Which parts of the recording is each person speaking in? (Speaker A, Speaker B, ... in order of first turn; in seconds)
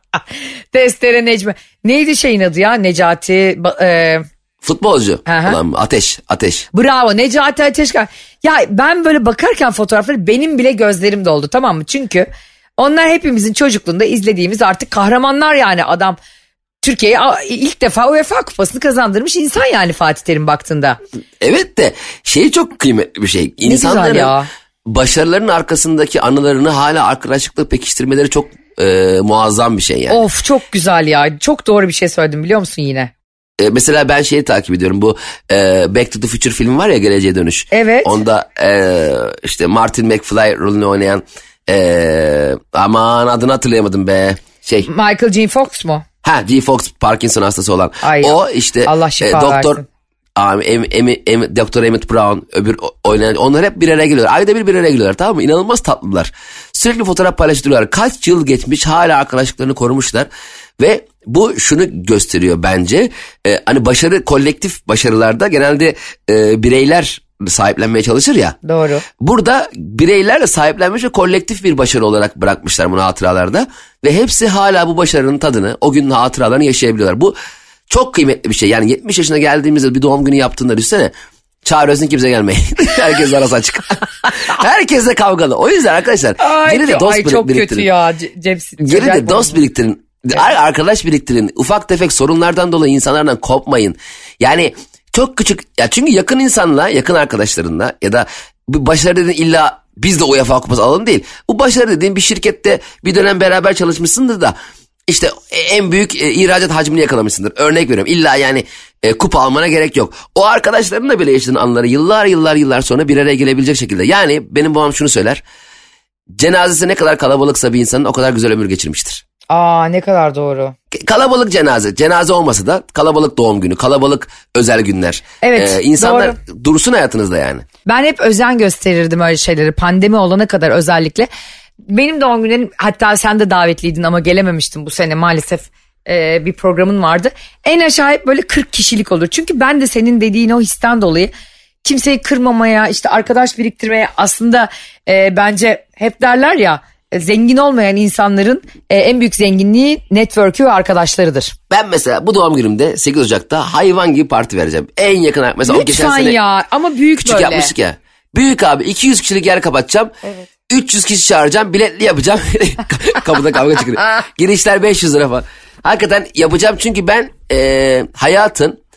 Speaker A: 0.7-4.2, 5.2-5.6, 6.7-16.2, 16.8-21.0, 23.6-24.5, 30.1-33.1, 37.7-38.2, 44.8-46.0, 48.0-49.8, 68.6-69.0, 86.4-89.6, 119.5-120.7, 125.4-126.3, 127.8-131.3, 131.9-141.3, 141.8-151.6, 155.6-157.7
Speaker B: 4.6-6.7, 21.4-24.3, 24.9-30.2, 33.6-44.9, 46.2-49.8, 50.4-60.3, 60.8-68.6, 69.2-77.3, 77.9-81.1, 81.6-87.9, 88.8-104.5, 105.1-115.4, 116.3-119.2, 120.9-127.6, 151.7-156.3, 157.2-160.1, 160.7-168.8